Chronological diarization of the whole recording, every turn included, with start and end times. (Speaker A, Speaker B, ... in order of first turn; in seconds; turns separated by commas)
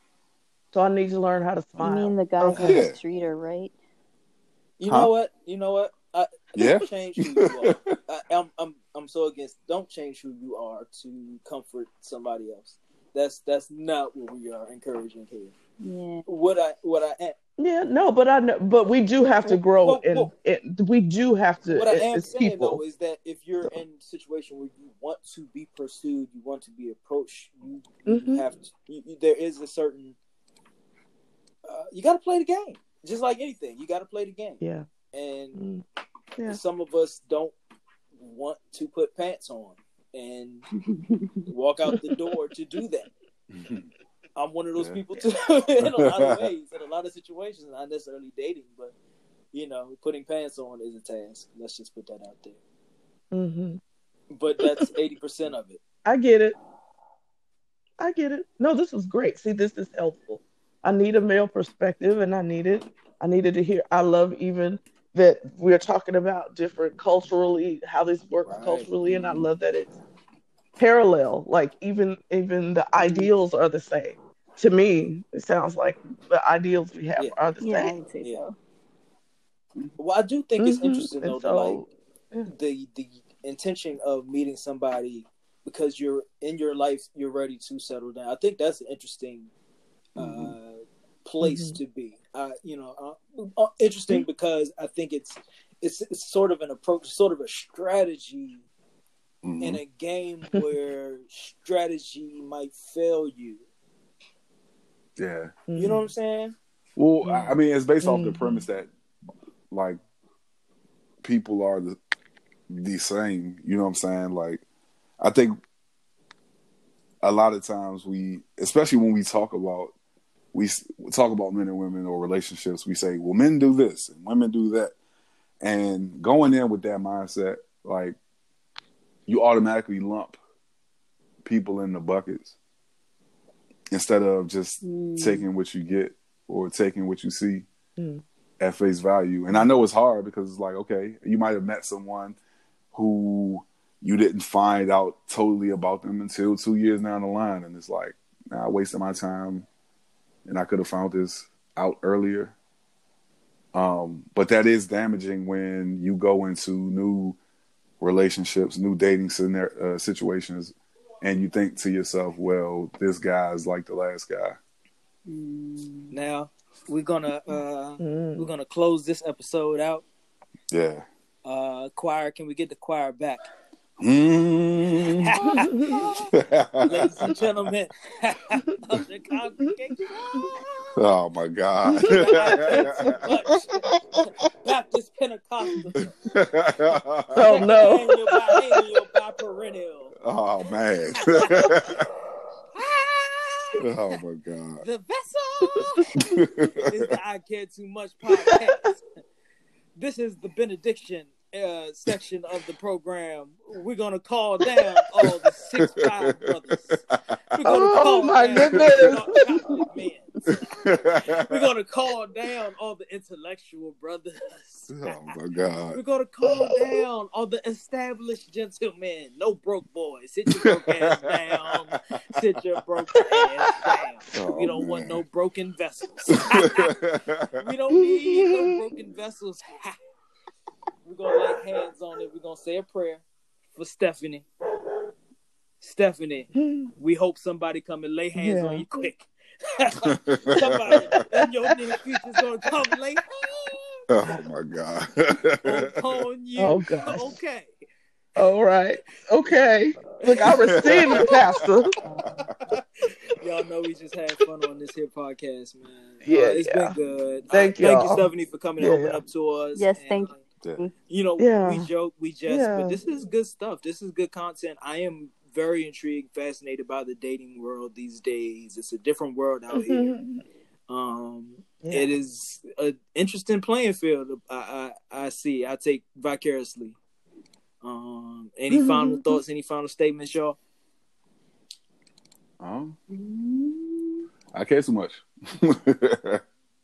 Speaker A: 0.7-2.8, Speaker B: 1.8-3.7, Speaker C: 2.5-3.0, Speaker D: 4.8-15.5, Speaker C: 6.5-8.0, Speaker B: 15.8-16.2, Speaker D: 16.2-17.3, Speaker A: 17.6-22.8, Speaker D: 19.4-20.3, Speaker D: 21.7-30.2, Speaker A: 28.1-28.4, Speaker D: 31.6-34.6, Speaker A: 34.6-34.9, Speaker D: 35.1-35.6, Speaker A: 35.6-35.8, Speaker D: 36.5-37.5, Speaker D: 38.1-40.7, Speaker B: 40.8-41.5, Speaker D: 41.5-43.1, Speaker C: 43.5-43.9, Speaker D: 44.4-48.9, Speaker C: 44.8-45.0, Speaker C: 45.8-46.4, Speaker D: 49.5-52.6, Speaker A: 53.3-53.8, Speaker D: 54.3-55.8, Speaker A: 54.6-54.9, Speaker A: 56.0-56.5, Speaker A: 58.0-69.9, Speaker D: 68.5-68.9, Speaker C: 69.1-69.4, Speaker A: 70.8-78.0, Speaker B: 73.0-73.3, Speaker B: 77.6-78.5, Speaker D: 80.0-81.8, Speaker A: 80.6-82.5, Speaker D: 82.5-89.5, Speaker D: 90.1-98.6, Speaker C: 90.2-90.5, Speaker A: 91.4-91.8, Speaker C: 99.4-99.8, Speaker D: 99.6-103.6, Speaker C: 105.2-105.5, Speaker A: 105.7-106.1, Speaker D: 105.7-106.5, Speaker C: 107.0-108.9, Speaker A: 108.0-108.6, Speaker C: 109.7-110.0, Speaker C: 111.2-112.0, Speaker C: 112.7-114.6, Speaker C: 115.2-115.5, Speaker C: 117.2-119.9, Speaker C: 120.5-124.9, Speaker C: 125.6-128.2, Speaker C: 129.3-130.3, Speaker C: 131.4-132.5, Speaker C: 133.9-137.7, Speaker B: 134.8-135.4, Speaker A: 138.0-138.2, Speaker C: 138.6-142.4, Speaker C: 142.9-149.7, Speaker C: 150.4-152.5, Speaker C: 153.7-157.4, Speaker C: 158.0-164.6, Speaker B: 165.3-166.1, Speaker D: 166.1-170.1, Speaker A: 168.0-168.5, Speaker C: 170.7-171.1, Speaker D: 171.4-173.5, Speaker C: 174.0-175.4, Speaker D: 175.2-176.3, Speaker A: 175.4-176.2, Speaker C: 176.3-177.3, Speaker D: 176.8-180.9, Speaker C: 180.9-183.8, Speaker A: 181.9-183.2, Speaker D: 181.9-186.0, Speaker C: 186.0-187.6, Speaker A: 187.3-188.6, Speaker D: 187.4-190.2, Speaker C: 190.2-192.1, Speaker D: 191.2-191.8, Speaker D: 192.7-194.2, Speaker C: 193.8-194.8, Speaker D: 194.8-199.1, Speaker A: 195.8-196.3, Speaker C: 196.3-197.1, Speaker D: 199.9-215.3, Speaker C: 205.2-207.7, Speaker A: 207.6-209.8, Speaker C: 208.8-209.1, Speaker C: 210.5-211.6, Speaker C: 214.9-216.0, Speaker D: 215.9-226.9, Speaker A: 216.4-216.9, Speaker C: 220.5-221.9, Speaker A: 223.2-223.9, Speaker C: 224.3-225.2, Speaker C: 226.5-227.6, Speaker D: 227.6-229.9, Speaker A: 227.9-228.8, Speaker D: 231.0-234.5, Speaker D: 235.8-244.0, Speaker A: 236.6-236.9, Speaker A: 238.3-239.0, Speaker C: 240.0-241.2, Speaker C: 244.1-246.0, Speaker D: 245.6-247.7, Speaker A: 246.6-247.4, Speaker A: 248.4-251.9, Speaker D: 250.2-251.6, Speaker C: 250.7-251.3, Speaker B: 252.0-252.4, Speaker D: 252.7-260.4, Speaker A: 256.2-256.9, Speaker A: 257.5-258.3, Speaker A: 258.8-259.2, Speaker B: 259.7-260.9, Speaker D: 261.1-270.1, Speaker A: 261.4-261.9, Speaker A: 262.5-263.2, Speaker A: 269.7-270.4, Speaker D: 270.9-276.9, Speaker A: 271.8-272.1, Speaker D: 277.8-280.6, Speaker A: 278.7-279.4, Speaker C: 282.6-282.9, Speaker B: 283.1-284.2, Speaker C: 284.5-286.4